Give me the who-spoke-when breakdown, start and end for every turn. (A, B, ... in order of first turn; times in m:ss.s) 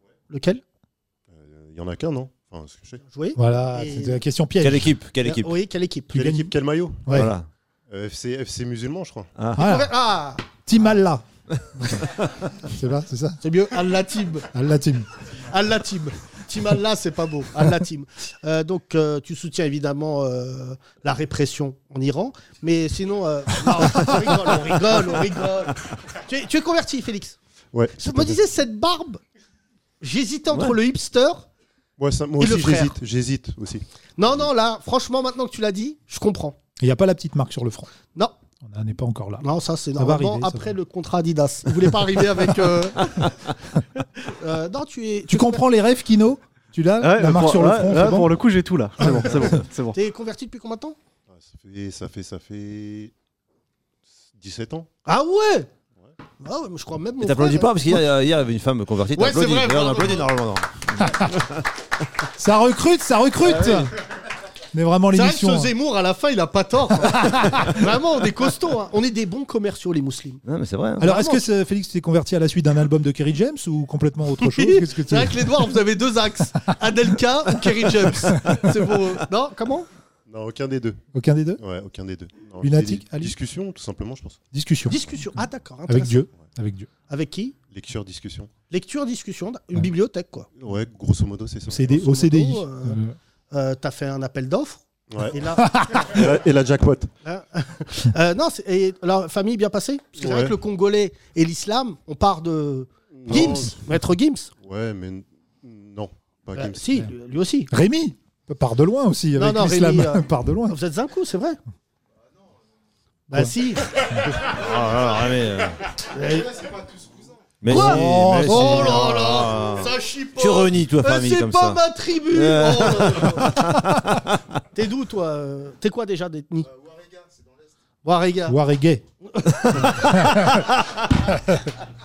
0:00.3-0:00.6 A
0:01.3-0:03.0 B
0:03.1-0:04.2 A
0:03.4-0:04.9 C
0:04.6-0:05.5 D
0:05.2-0:06.2 A
0:06.1-0:06.5 C
0:06.2-0:07.3 B
0:07.1-0:07.5 D
0:07.9-0:09.3 B
0:09.4-0:09.6 D
0:09.6-0:09.9 C
0:09.6-0:10.5 A
0:10.6-0:11.2 C
0:11.8-0:13.4 C
0:13.4-0:14.5 A
0:14.5-0:15.1 C
0:15.4-0:27.4 A
0:27.7-0:28.4 B
0:28.0-0:29.2 A
0:30.0-0:31.5 A
0:30.5-0:30.8 D
0:32.0-0:33.8 B
0:32.4-0:33.0 A
0:34.2-0:36.6 A
0:36.8-0:37.9 C
0:38.6-0:39.4 C
0:39.4-0:43.6 A
0:40.0-0:40.7 C
0:44.2-0:45.7 A
0:45.3-0:48.3 C
0:47.0-0:50.0 E
0:49.0-0:49.5 C
0:49.0-0:51.0 A
0:51.3-0:53.1 B
0:54.3-0:54.9 B
0:55.0-0:55.7 A
0:56.4-0:58.0 A
0:57.2-1:01.4 D
0:59.1-1:00.3 A
1:01.0-1:01.3 C
1:02.3-1:03.9 C
1:04.7-1:05.7 C
1:05.1-1:10.4 A
1:10.4-1:11.0 D
1:11.0-1:11.4 A
1:11.0-1:15.6 C
1:14.4-1:19.9 A
1:20.3-1:21.0 B
1:21.1-1:21.6 C
1:21.6-1:24.4 B
1:22.6-1:23.3 C
1:24.5-1:25.1 C
1:24.9-1:26.2 A
1:25.9-1:26.9 C
1:27.1-1:27.6 A
1:27.7-1:28.5 B
1:28.7-1:30.5 A
1:30.6-1:32.0 B
1:31.7-1:33.2 C
1:31.8-1:33.0 A
1:33.5-1:36.3 A
1:35.4-1:36.2 C
1:36.1-1:37.1 B
1:37.2-1:44.5 A
1:40.2-1:40.6 B
1:43.1-1:43.8 B
1:44.6-1:47.0 B
1:46.6-1:47.7 A
1:47.7-1:50.8 C
1:49.4-1:51.6 A
1:53.3-1:53.9 A
1:54.4-1:55.9 D
1:56.0-1:56.7 A
1:57.6-2:04.3 D
1:57.7-2:03.7 A
1:57.7-1:58.9 C
2:04.7-2:07.0 A
2:08.0-2:08.6 A
2:08.5-2:09.0 C
2:09.3-2:11.1 A
2:09.8-2:10.7 C